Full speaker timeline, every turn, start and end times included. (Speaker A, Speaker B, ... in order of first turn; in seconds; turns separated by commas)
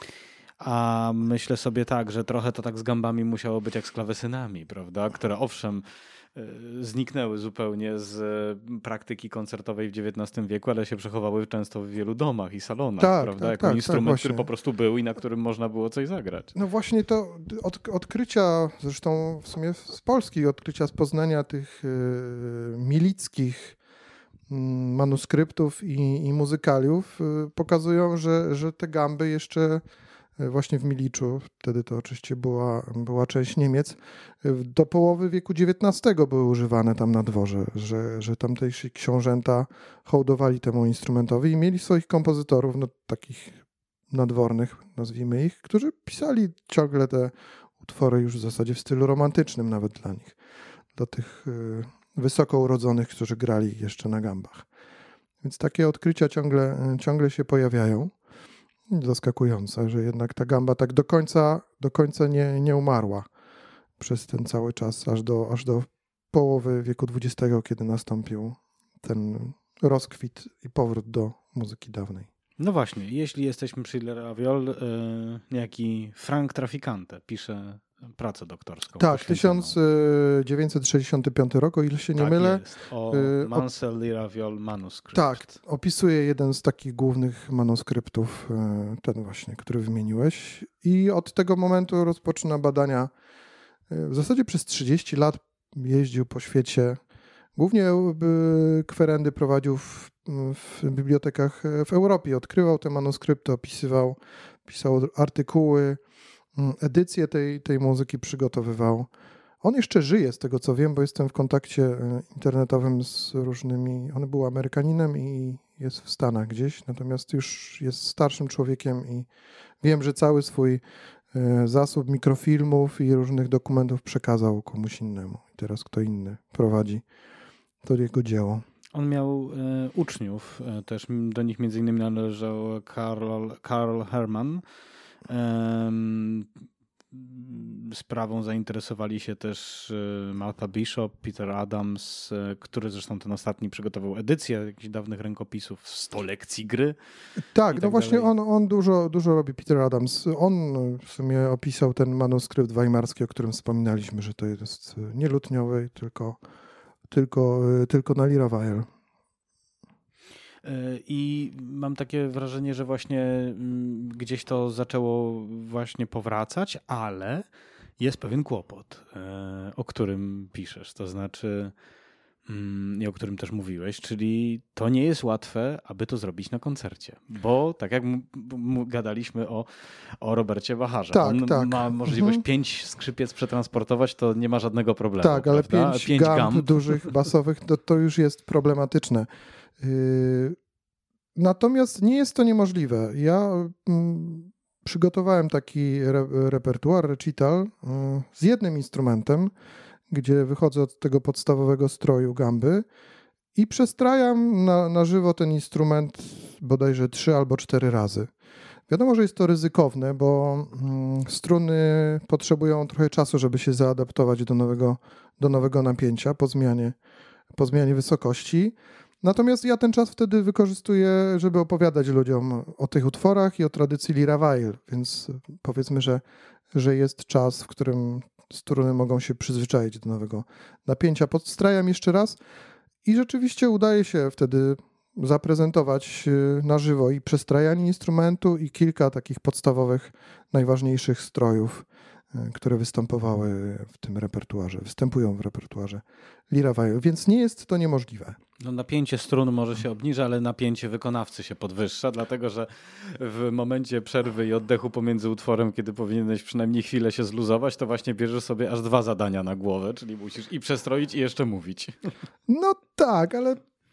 Speaker A: 0.6-16.5, Speaker B: 13.0-14.5, Speaker B: 16.6-23.8, Speaker B: 24.5-29.8, Speaker B: 30.4-50.4, Speaker B: 50.9-54.7, Speaker B: 55.4-58.1, Speaker B: 58.9-63.3, Speaker B: 64.0-72.3, Speaker A: 72.6-79.8, Speaker B: 79.0-83.7, Speaker A: 82.1-85.5, Speaker B: 85.1-93.1, Speaker B: 93.9-97.0, Speaker B: 97.5-106.0, Speaker B: 106.5-109.1, Speaker B: 109.6-119.3, Speaker B: 119.8-120.8, Speaker B: 121.3-127.0, Speaker B: 127.8-128.6, Speaker A: 128.9-134.6, Speaker A: 135.3-136.5, Speaker A: 137.1-147.0, Speaker B: 147.4-156.4, Speaker A: 147.7-148.3, Speaker B: 157.1-158.9, Speaker A: 160.6-167.5, Speaker A: 168.0-171.7, Speaker A: 172.4-187.1, Speaker B: 181.1-182.4, Speaker B: 185.2-189.3, Speaker B: 189.8-190.6, Speaker B: 191.3-199.5, Speaker B: 200.1-202.9, Speaker B: 203.6-208.3, Speaker B: 208.9-216.9, Speaker B: 217.5-232.4, Speaker B: 233.0-248.4, Speaker A: 248.6-262.0, Speaker B: 262.5-263.6